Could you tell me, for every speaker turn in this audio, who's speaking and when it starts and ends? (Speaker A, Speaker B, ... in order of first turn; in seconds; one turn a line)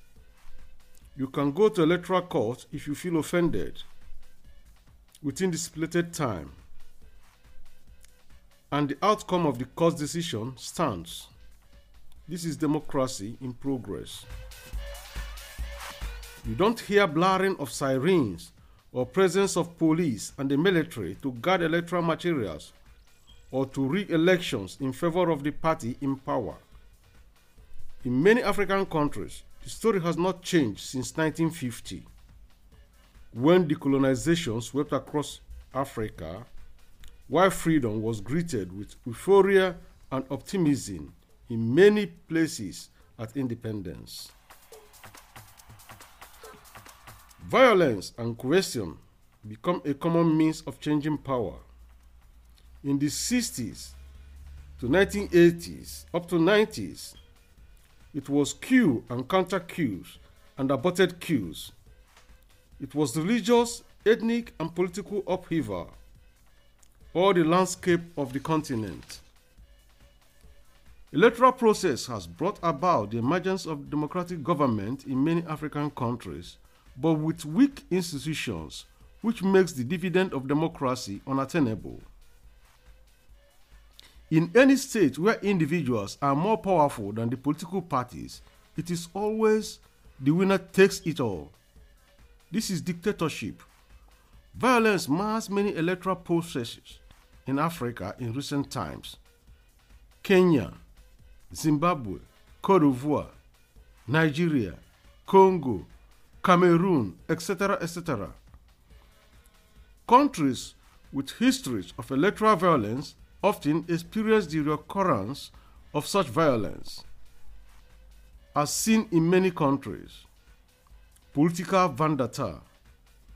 Speaker A: 1.1-3.8
Speaker A: 5.2-6.6
Speaker A: 8.7-11.3
Speaker A: 12.3-14.3
Speaker A: 16.4-22.7
Speaker A: 23.5-26.6
Speaker A: 28.0-32.1
Speaker A: 33.3-36.5
Speaker A: 37.3-44.3
Speaker A: 47.4-51.6
Speaker A: 52.8-54.0
Speaker A: 54.8-57.2
Speaker A: 58.1-61.7
Speaker A: 62.8-65.9
Speaker A: 67.1-69.2
Speaker A: 71.1-82.1
Speaker A: 84.3-91.5
Speaker A: 92.5-93.7
Speaker A: 94.5-99.2
Speaker A: 100.2-100.8
Speaker A: 101.5-103.3
Speaker A: 104.1-105.9
Speaker A: 106.4-108.4
Speaker A: 110.1-117.0
Speaker A: 118.5-120.3
Speaker A: 121.3-122.6